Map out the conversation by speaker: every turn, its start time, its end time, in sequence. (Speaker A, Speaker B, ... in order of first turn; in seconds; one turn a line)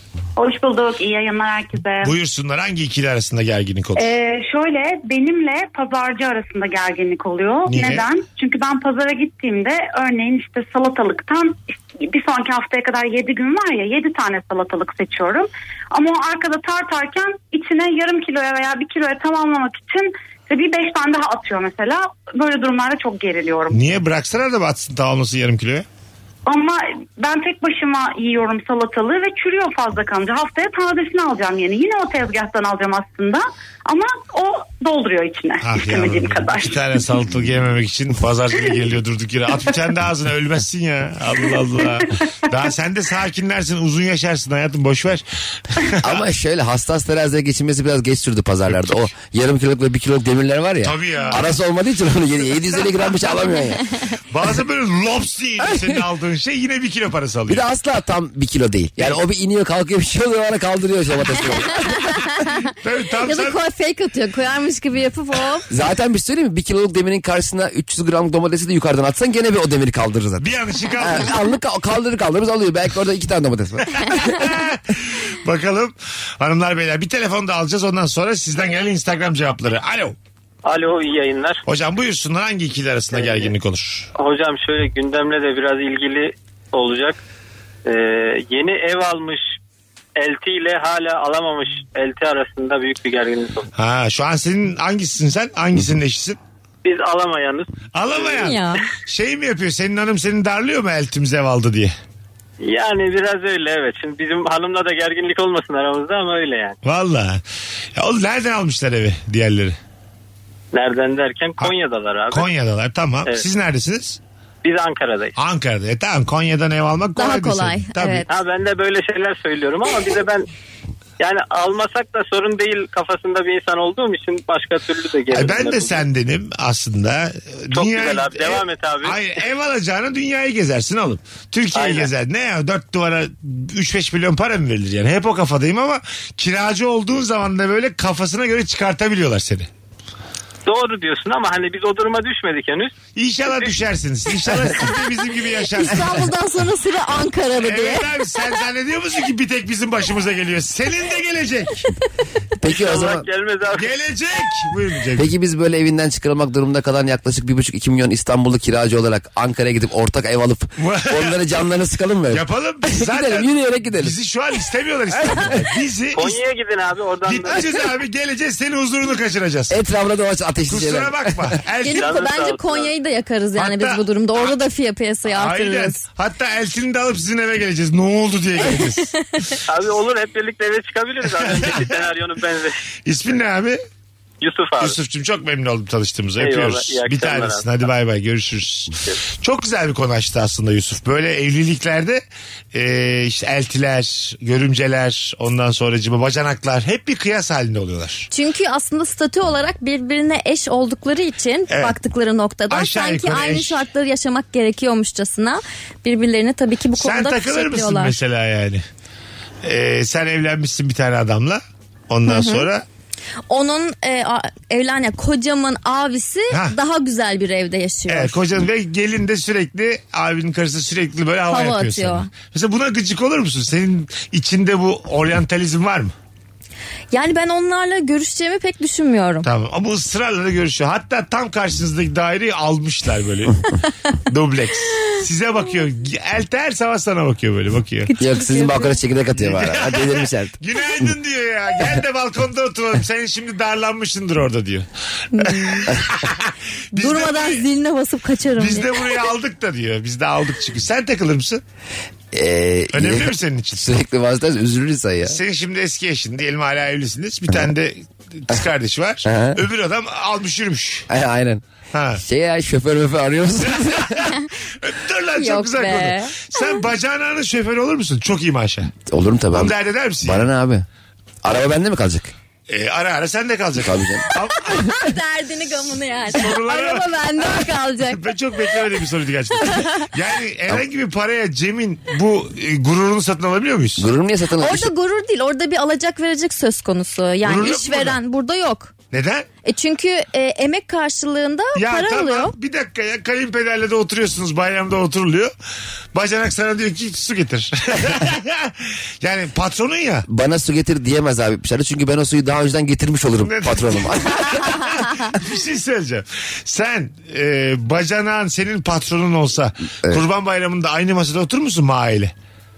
Speaker A: 0.4-2.1
Speaker B: 2.0-4.1
Speaker A: 4.0-23.8
Speaker B: 7.7-8.1
Speaker B: 23.7-25.9
Speaker A: 26.5-37.0
Speaker B: 35.6-45.2
Speaker B: 45.8-46.2
Speaker C: 46.0-53.8
Speaker B: 48.7-49.1
Speaker B: 50.8-51.5
Speaker B: 54.3-57.6
Speaker C: 57.5-62.1
Speaker D: 61.8-62.6
Speaker B: 62.8-63.6
Speaker D: 63.2-65.7
Speaker C: 65.7-74.3
Speaker B: 70.4-71.4
Speaker B: 73.9-80.2
Speaker E: 80.7-81.6
Speaker B: 81.7-84.1
Speaker E: 83.1-83.5
Speaker E: 84.2-87.2
Speaker E: 87.8-89.4
Speaker E: 90.2-93.7
Speaker B: 93.8-96.4
Speaker E: 96.8-98.5
Speaker B: 97.9-102.0
Speaker D: 98.4-98.8
Speaker E: 102.6-106.8
Speaker B: 106.8-107.4
Speaker B: 108.0-109.8
Speaker E: 110.7-112.5
Speaker B: 112.3-114.2
Speaker E: 114.6-115.3
Speaker B: 115.4-118.3
Speaker D: 117.2-118.3
Speaker E: 118.3-120.5
Speaker E: 121.2-126.0
Speaker B: 125.3-139.7
Speaker E: 127.7-129.2
Speaker E: 131.8-132.1
Speaker E: 140.7-142.9
Speaker B: 143.2-146.2
Speaker D: 145.8-148.1
Speaker B: 147.6-151.9
Speaker C: 152.6-153.3
Speaker E: 152.7-153.9
Speaker B: 153.8-155.3
Speaker C: 155.2-164.2
Speaker B: 160.8-161.4
Speaker B: 162.3-166.4
Speaker E: 166.1-167.8
Speaker B: 167.2-169.8
Speaker C: 169.7-171.5
Speaker B: 170.7-172.1
Speaker D: 171.8-176.0
Speaker E: 171.9-172.9
Speaker B: 173.6-174.0
Speaker B: 175.3-179.1
Speaker E: 179.7-182.8
Speaker B: 181.4-181.9
Speaker B: 183.1-183.8
Speaker E: 184.4-185.0
Speaker B: 184.8-192.2
Speaker E: 186.4-187.7
Speaker B: 192.7-198.3
Speaker D: 198.3-208.2
Speaker B: 201.7-201.9
Speaker B: 202.7-203.8
Speaker B: 207.0-208.8
Speaker B: 209.6-212.8
Speaker D: 212.3-212.7
Speaker D: 213.5-218.4
Speaker B: 216.5-216.8
Speaker B: 218.1-226.1
Speaker D: 221.5-222.3
Speaker D: 227.1-229.5
Speaker B: 229.4-233.7
Speaker B: 234.3-238.1
Speaker D: 238.1-239.0
Speaker C: 238.2-240.5
Speaker B: 239.4-244.9
Speaker D: 245.3-245.9
Speaker B: 245.4-247.6
Speaker D: 246.9-249.0
Speaker B: 248.6-251.6
Speaker C: 252.3-255.4
Speaker B: 252.9-253.9
Speaker B: 255.3-261.1
Speaker C: 259.2-259.6
Speaker C: 261.1-261.6
Speaker B: 261.9-262.2
Speaker C: 262.2-264.3
Speaker B: 263.8-268.9
Speaker D: 265.4-266.6
Speaker C: 269.1-270.9
Speaker B: 269.5-270.5
Speaker C: 271.4-272.3
Speaker B: 272.7-275.1
Speaker C: 273.8-274.3
Speaker D: 274.6-278.3
Speaker B: 276.3-284.1
Speaker D: 279.6-280.1
Speaker C: 284.0-284.9
Speaker D: 284.6-288.9
Speaker B: 287.4-288.2
Speaker B: 289.1-289.5
Speaker D: 289.6-292.5
Speaker B: 291.8-295.5
Speaker B: 296.1-300.2
Speaker C: 300.3-304.8
Speaker B: 303.4-312.3